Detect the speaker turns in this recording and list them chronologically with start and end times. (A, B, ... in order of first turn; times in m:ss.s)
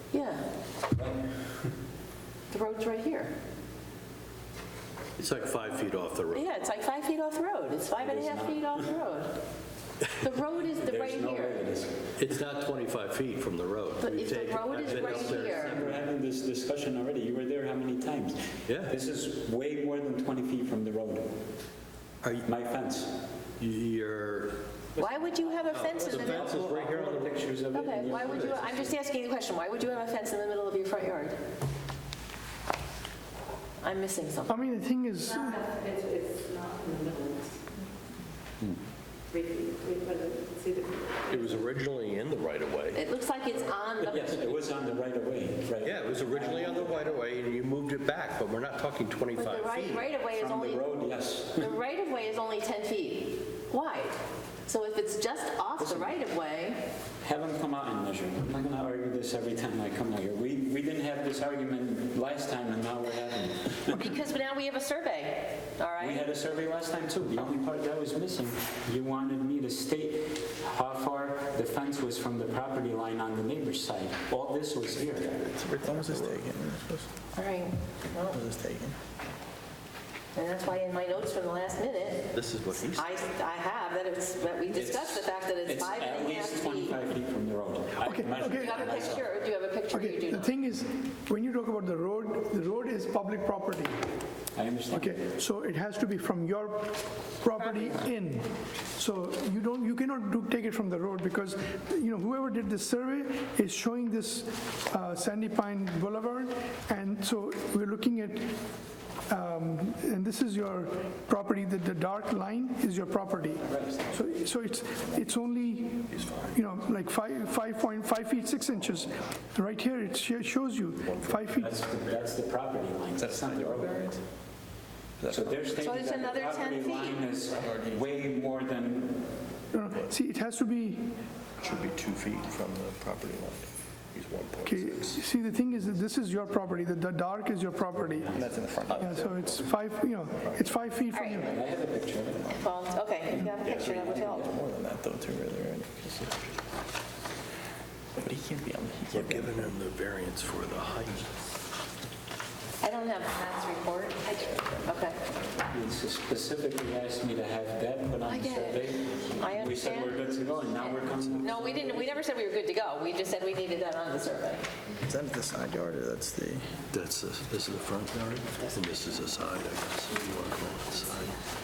0:00.1-0:00.5 A
0:00.9-0:01.7 B
0:02.5-0:03.3 A
0:05.2-0:06.5 C
0:06.3-0:09.4 A
0:08.0-0:08.8 B
0:10.2-0:11.6 A
0:10.6-0:12.0 B
0:12.2-0:16.1 C
0:14.0-0:15.8 A
0:14.8-0:21.3 B
0:18.7-0:18.9 C
0:22.2-0:22.5 C
0:22.4-0:23.1 B
0:23.6-0:24.6 C
0:25.0-0:28.9 B
0:25.0-0:26.5 A
0:25.7-0:27.4 C
0:27.7-0:31.4 A
0:28.2-0:28.6 C
0:33.8-0:34.6 A
0:34.5-0:35.6 D
0:35.4-0:37.5 E
0:39.3-0:41.6 E
0:41.3-0:43.0 C
0:42.9-0:44.5 A
0:44.0-0:47.2 B
0:45.8-0:50.1 C
0:49.4-0:50.9 A
0:50.3-0:51.7 B
0:51.6-0:56.9 A
0:55.8-0:56.2 B
0:57.2-1:03.9 B
1:03.9-1:06.3 A
1:06.0-1:15.4 B
1:15.3-1:16.4 C
1:15.7-1:17.1 F
1:17.3-1:18.4 A
1:18.3-1:19.0 F
1:20.4-1:27.0 A
1:22.3-1:23.1 C
1:24.7-1:29.3 B
1:28.0-1:29.0 D
1:28.5-1:30.5 A
1:29.9-1:34.1 D
1:34.6-1:35.2 B
1:34.9-1:48.6 D
1:49.3-2:01.7 D
1:53.6-1:54.1 B
1:56.1-1:56.6 C
2:01.1-2:01.6 C
2:01.6-2:04.1 B
2:03.2-2:04.2 F
2:05.2-2:05.6 F
2:05.3-2:09.3 B
2:05.8-2:07.2 A
2:09.7-2:11.2 D
2:11.6-2:15.2 C
2:14.6-2:18.3 D
2:18.2-2:18.7 B
2:18.3-2:19.4 F
2:19.0-2:21.6 D
2:21.1-2:21.5 A
2:21.4-2:22.6 B
2:22.5-2:24.5 A
2:23.3-2:24.5 B
2:23.6-2:23.9 C
2:23.7-2:26.3 F
2:28.2-2:29.7 F
2:29.1-2:31.3 C
2:32.8-2:35.2 A
2:35.7-2:42.2 B
2:38.3-2:44.6 A
2:45.0-2:46.7 F
2:46.9-2:51.4 C